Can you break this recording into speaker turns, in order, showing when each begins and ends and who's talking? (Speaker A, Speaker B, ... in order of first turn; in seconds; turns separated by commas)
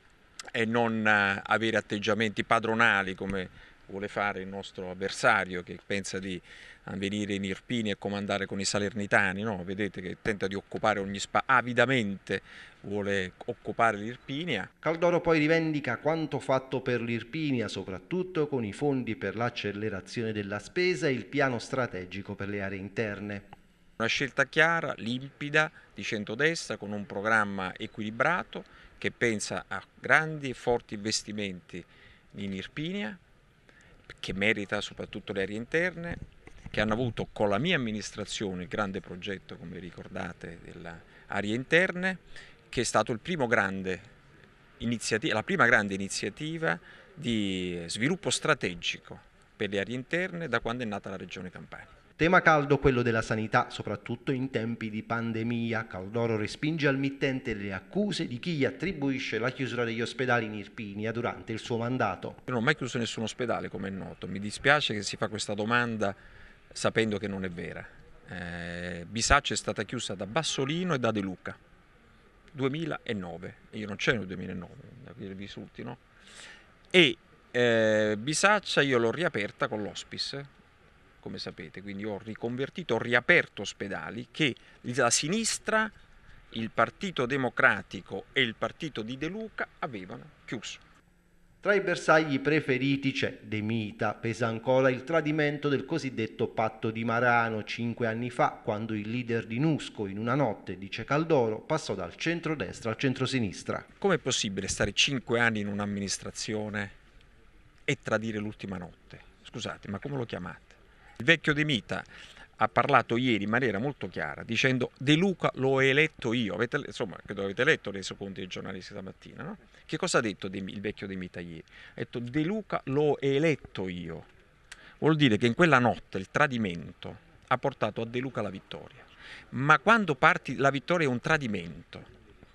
Speaker A: 0.5-14.7, Speaker B: 14.8-23.5, Speaker A: 24.0-33.2, Speaker A: 34.1-36.2, Speaker A: 36.7-44.1, Speaker A: 44.8-51.9, Speaker B: 52.2-62.4, Speaker A: 62.5-66.2, Speaker A: 66.7-71.6, Speaker A: 72.5-76.0, Speaker A: 76.9-80.5, Speaker A: 81.2-85.9, Speaker A: 86.5-90.8, Speaker B: 91.6-103.9, Speaker A: 104.0-107.0, Speaker A: 107.9-112.1, Speaker A: 112.6-124.3, Speaker A: 125.0-132.1